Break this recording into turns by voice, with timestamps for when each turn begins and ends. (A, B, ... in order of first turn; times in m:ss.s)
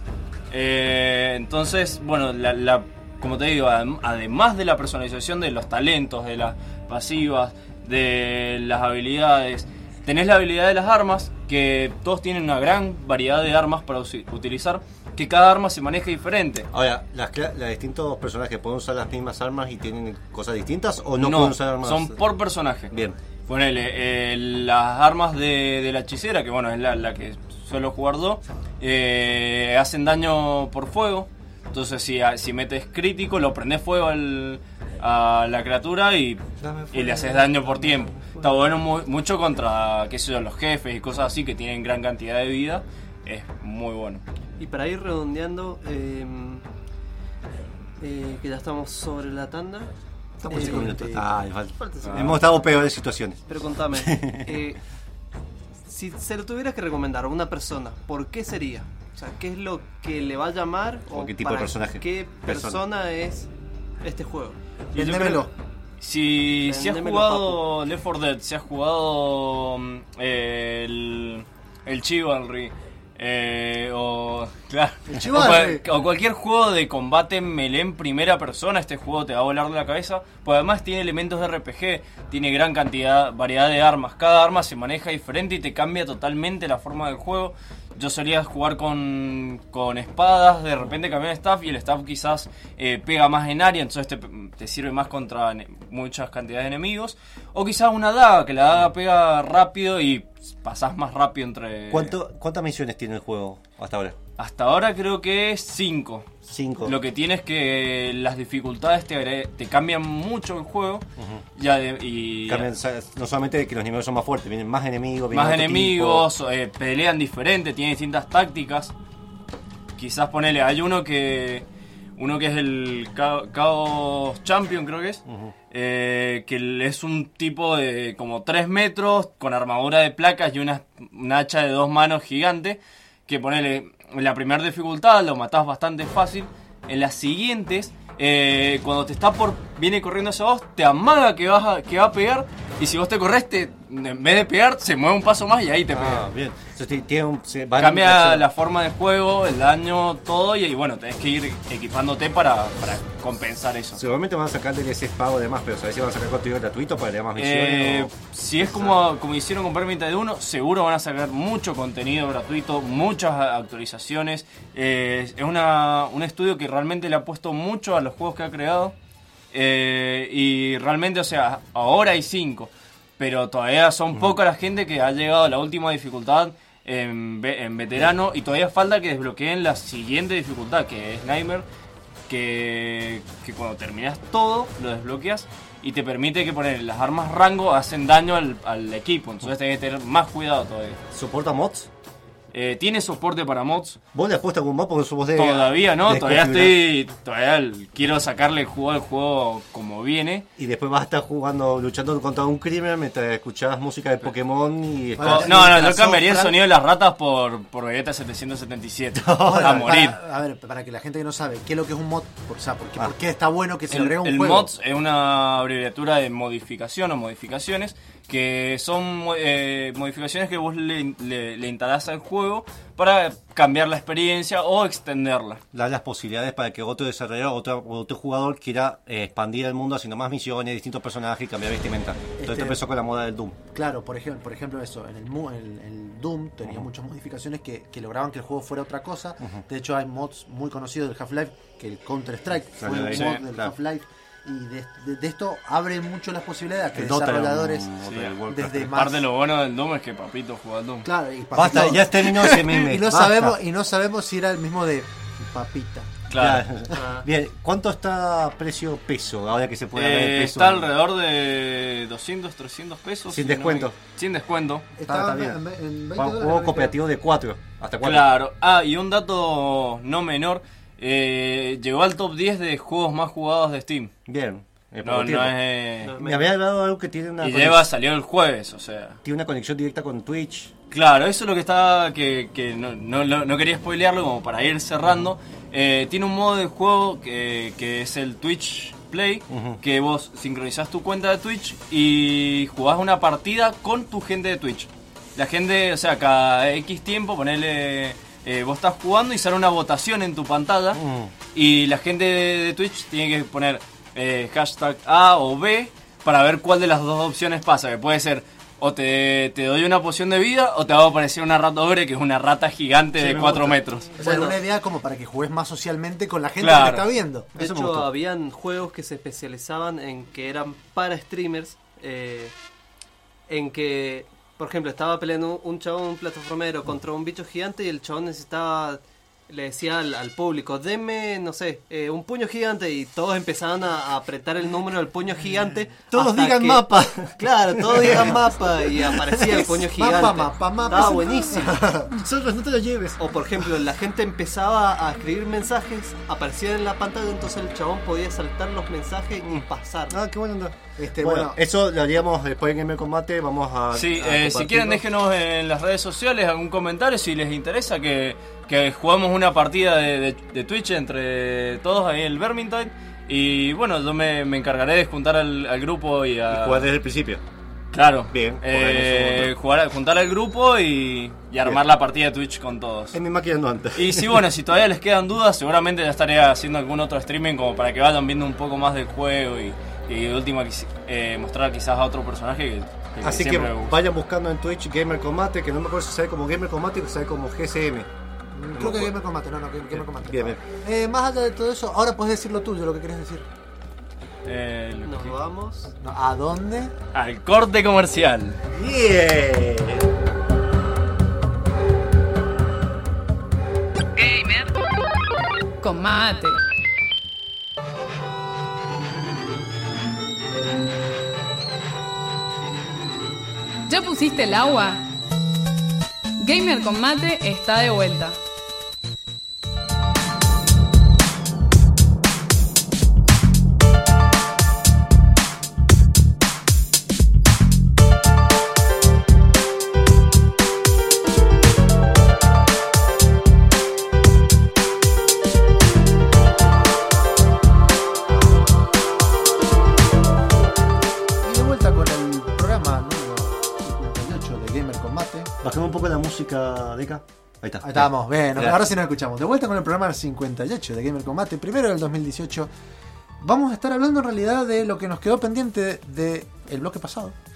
0:00.5-0:16.7 A
0:16.7-0:22.2 B
0:21.2-0:23.0 A
0:22.9-0:23.2 B
0:23.5-0:36.4 A
0:36.6-0:38.8 B
0:36.9-0:44.2 A
0:44.6-0:46.6 C
0:48.0-0:49.9 C
0:50.4-0:54.5 B
0:50.5-0:51.2 C
0:50.5-0:51.2 D
0:51.8-0:52.9 C
0:52.0-0:52.4 A
0:53.5-0:54.8 C
0:55.9-1:03.5 C
1:01.1-1:02.8 B
1:04.0-1:04.6 C
1:04.9-1:05.5 A
1:05.0-1:05.5 D
1:06.0-1:42.2 A
1:06.7-1:07.6 C
1:15.1-1:15.8 D
1:41.9-1:44.2 B
1:44.4-1:46.3 A
1:46.5-1:47.0 B
1:46.8-1:51.0 A
1:51.2-1:51.4 B
1:51.6-1:52.7 A
1:52.5-1:56.3 B
1:55.3-1:58.9 A
2:00.0-2:01.6 A
2:02.2-2:26.2 A
2:05.3-2:05.5 B
2:25.9-2:28.5 B
2:27.8-2:34.0 A
2:33.9-2:39.0 B
2:37.4-2:49.0 A
2:49.5-3:01.6 A
3:02.3-3:11.0 A
3:11.1-3:11.9 B
3:12.5-3:14.0 A
3:14.1-3:16.8 B
3:15.4-3:20.4 A
3:20.6-3:25.7 B
3:25.2-3:26.6 D
3:25.2-3:30.2 A
3:29.2-3:29.9 B
3:29.4-3:34.7 D
3:33.9-3:45.6 A
3:45.7-3:53.6 B
3:52.4-3:52.8 D
3:53.7-4:07.9 D
4:02.8-4:03.7 B
4:03.1-4:03.4 A
4:06.9-4:09.0 B
4:08.0-4:11.1 A
4:08.5-4:09.2 D
4:11.0-4:16.1 D
4:11.5-4:13.6 B
4:11.6-4:12.7 A
4:16.3-4:16.6 A
4:16.4-4:20.9 B
4:16.9-4:17.3 C
4:20.0-4:24.9 A
4:23.3-4:24.0 B
4:25.0-4:27.0 D
4:25.1-4:25.6 B
4:26.2-4:28.3 B
4:28.0-4:34.1 A
4:34.3-4:35.6 B
4:35.0-4:36.2 A
4:36.0-4:36.5 C
4:36.2-4:37.9 B
4:37.4-4:39.2 A
4:39.2-4:40.7 B
4:40.9-5:01.0 A
4:49.5-4:49.8 B
5:01.0-5:01.3 B
5:01.5-5:14.1 A
5:13.2-5:13.8 B
5:14.2-5:17.5 D
5:14.2-5:14.6 C
5:16.6-5:17.0 A
5:17.6-5:18.1 B
5:17.6-5:22.5 C
5:23.5-5:41.8 C
5:36.1-5:40.0 B
5:40.0-5:42.1 D
5:40.9-5:43.3 B
5:43.2-5:50.2 C
5:49.5-5:55.0 B
5:51.0-5:51.6 D
5:53.9-6:06.9 A
6:06.5-6:07.4 B
6:07.9-6:13.2 A
6:08.3-6:09.5 B
6:13.1-6:14.4 B
6:14.0-6:24.0 A
6:23.2-6:28.1 B
6:28.6-6:33.5 D
6:28.7-6:29.2 B
6:29.9-6:30.6 B
6:34.4-6:35.4 A
6:35.0-6:35.9 C
6:36.0-6:36.9 D
6:37.1-6:38.6 A
6:38.7-6:40.1 B
6:44.2-6:44.7 E
6:45.8-6:46.6 E
6:53.9-6:55.0 E
6:56.4-6:58.4 E
7:21.4-7:25.5 D
7:25.6-7:28.8 B
7:27.8-7:32.7 D
7:33.4-7:37.4 D